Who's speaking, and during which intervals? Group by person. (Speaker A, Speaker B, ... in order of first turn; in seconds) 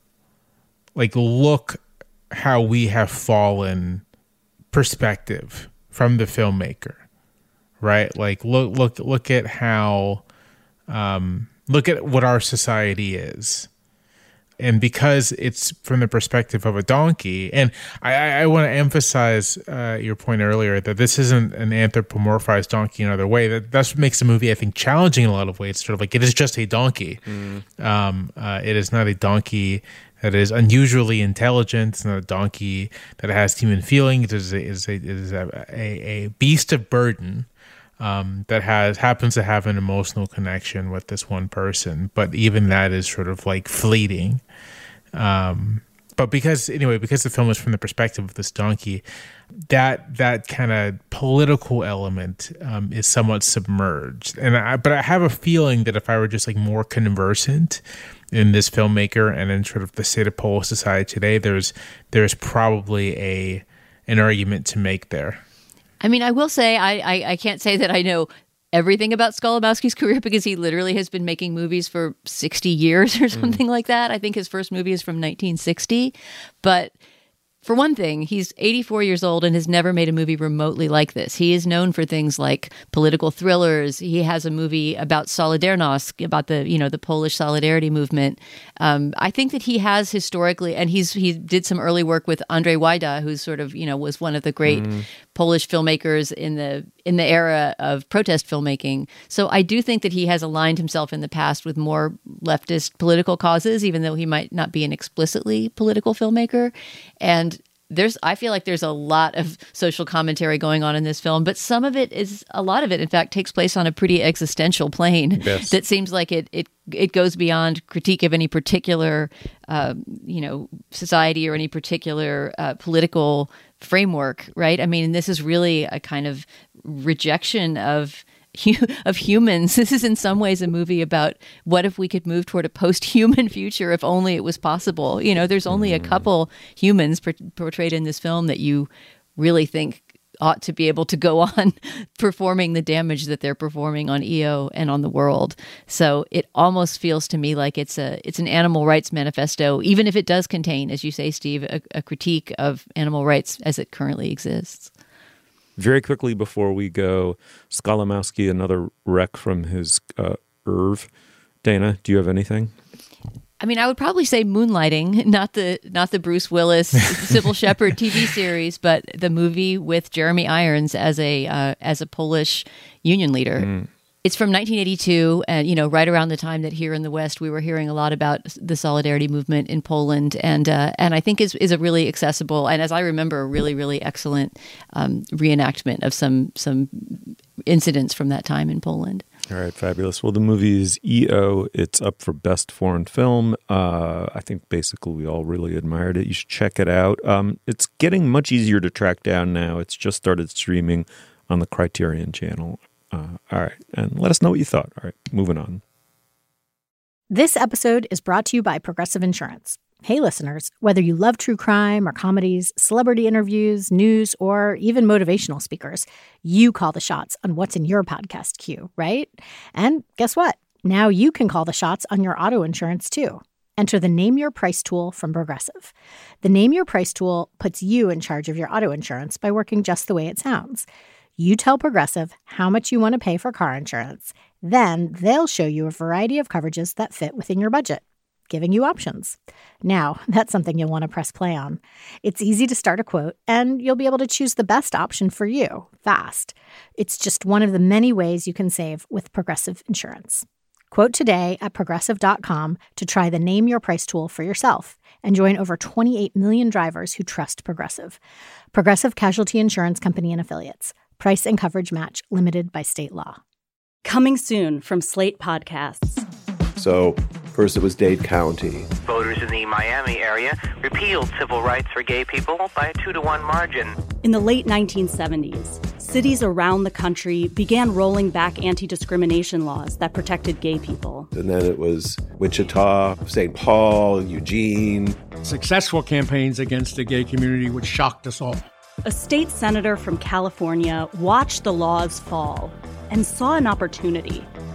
Speaker A: 1.0-1.8, 2.3-4.0, 4.7-7.0, 7.8-10.2, 10.9-13.7, 14.6-27.2, 27.8-37.5, 38.0-44.4, 45.1-49.0, 49.7-57.8, 58.3-65.4
Speaker B: 27.3-27.6, 73.3-73.6, 94.7-95.1, 115.4-115.7, 135.7-136.2, 155.8-161.1, 161.6-162.7, 173.6-173.9, 189.5-205.8
Speaker C: 66.0-77.0, 77.6-154.9, 163.6-173.7, 174.2-189.2
Speaker D: 207.3-230.9, 231.4-258.2, 258.7-263.4
Speaker E: 264.1-266.2, 274.2-281.3, 289.1-294.5
Speaker F: 266.8-268.9, 281.3-285.2
Speaker G: 269.1-274.0
Speaker H: 285.4-288.6